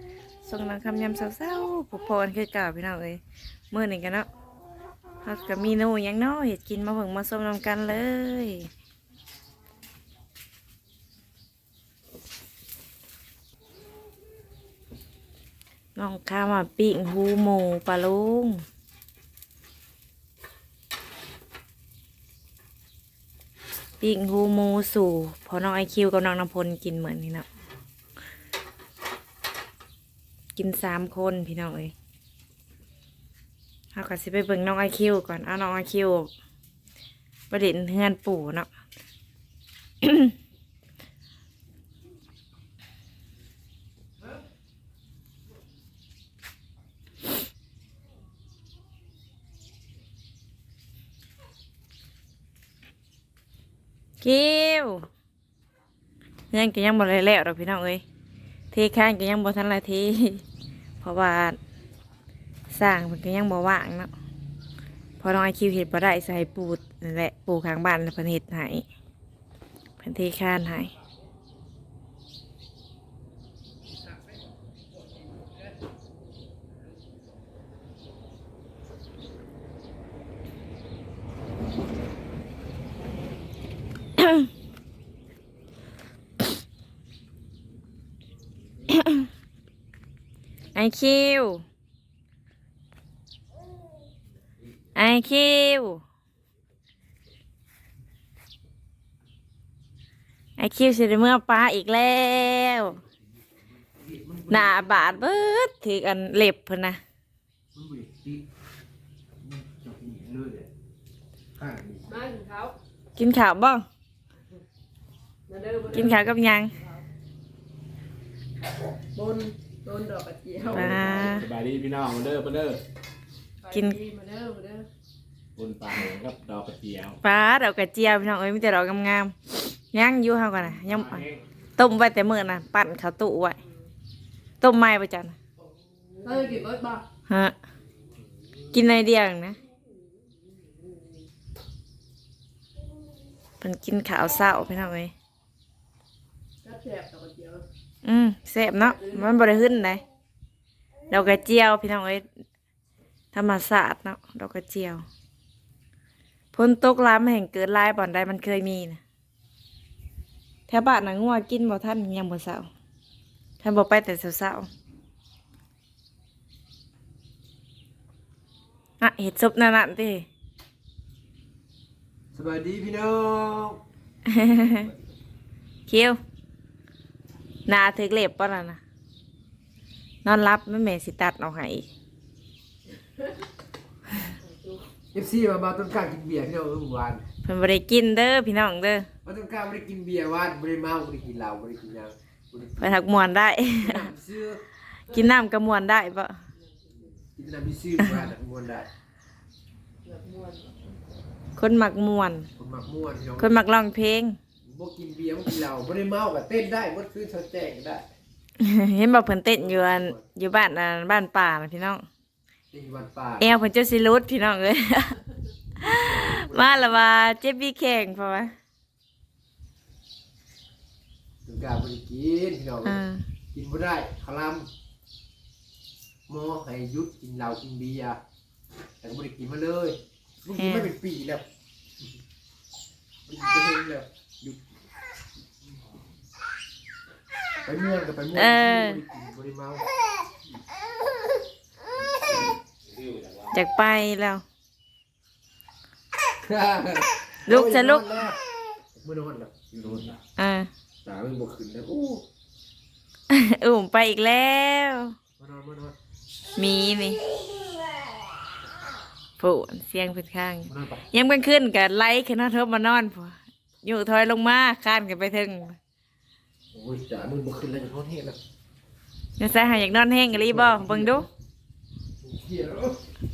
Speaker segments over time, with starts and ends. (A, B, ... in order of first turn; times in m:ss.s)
0:00.4-0:03.2 A
0:03.7-0:04.3 A
0:05.2-0:08.7 A
0:16.0-0:18.6 A
0:24.0-0:27.5 A
0:30.6-0:31.9 A
0:33.9-0:36.3 A
0:37.5-0:38.7 A
0:40.0-0:40.3 A
0:54.2-0:55.1 A
0:56.5-0:58.0 A
0:58.7-1:00.4 A
1:01.0-1:01.6 A
1:02.7-1:04.1 A
1:05.2-1:08.8 A
1:10.0-1:10.9 A
1:28.9-1:29.3 A
1:30.7-1:31.6 A
1:35.0-1:36.0 A
1:40.6-1:43.0 A
1:43.7-1:45.3 B
1:44.5-1:47.0 A
1:47.7-1:48.4 B
1:49.4-1:50.7 B
1:51.6-1:52.2 B
1:52.0-1:52.8 C
1:53.2-1:53.8 A
1:55.5-1:56.2 C
1:55.9-1:56.8 A
1:59.1-2:00.8 C
2:00.6-2:02.8 D
2:00.7-2:01.5 A
2:03.6-2:04.9 C
2:03.7-2:04.0 A
2:05.6-2:07.2 D
2:07.2-2:13.6 A
2:10.7-2:11.4 D
2:14.6-2:15.4 A
2:16.2-2:17.0 C
2:17.2-2:17.6 A
2:18.7-2:19.6 A
2:23.6-2:25.1 A
2:26.6-2:27.6 C
2:28.0-2:30.0 A
2:28.7-2:29.4 C
2:31.1-2:32.2 A
2:33.3-2:35.0 A
2:36.5-2:39.0 A
2:40.7-2:42.7 A
2:43.6-2:44.7 A
2:49.0-2:50.2 A
2:52.3-2:53.8 B
2:54.3-2:54.9 A
2:55.9-2:56.2 A
2:57.6-2:58.8 A
3:00.2-3:01.9 A
3:04.3-3:04.9 C
3:05.1-3:07.2 B
3:07.4-3:09.1 A
3:09.2-3:13.0 B
3:12.8-3:14.1 A
3:13.7-3:14.6 B
3:15.0-3:16.4 A
3:16.6-3:17.1 C
3:17.3-3:18.9 B
3:18.0-3:18.3 A
3:20.0-3:20.9 C
3:21.6-3:22.5 A
3:22.6-3:23.6 B
3:23.4-3:24.4 A
3:24.6-3:28.1 B
3:28.6-3:32.0 A
3:29.5-3:30.2 B
3:32.7-3:33.5 B
3:33.4-3:35.2 A
3:35.8-3:38.5 A
3:35.8-3:37.0 B
3:41.4-3:43.0 B
3:42.8-3:43.2 A
3:43.5-3:44.7 B
3:46.3-3:48.2 B
3:49.0-3:51.4 B
3:50.5-3:50.9 A
3:53.3-3:54.6 B
3:57.6-3:59.8 B
3:58.3-3:59.0 A
4:03.5-4:04.4 A
4:06.4-4:08.4 B
4:07.4-4:08.2 A
4:08.9-4:10.2 B
4:10.4-4:10.7 A
4:11.0-4:12.2 B
4:13.3-4:15.2 A
4:15.4-4:16.0 B
4:16.6-4:17.2 A
4:19.4-4:25.8 A
4:20.7-4:21.0 B
4:26.7-4:28.4 B
4:29.4-4:31.3 A
4:30.3-4:31.3 B
4:32.2-4:33.0 B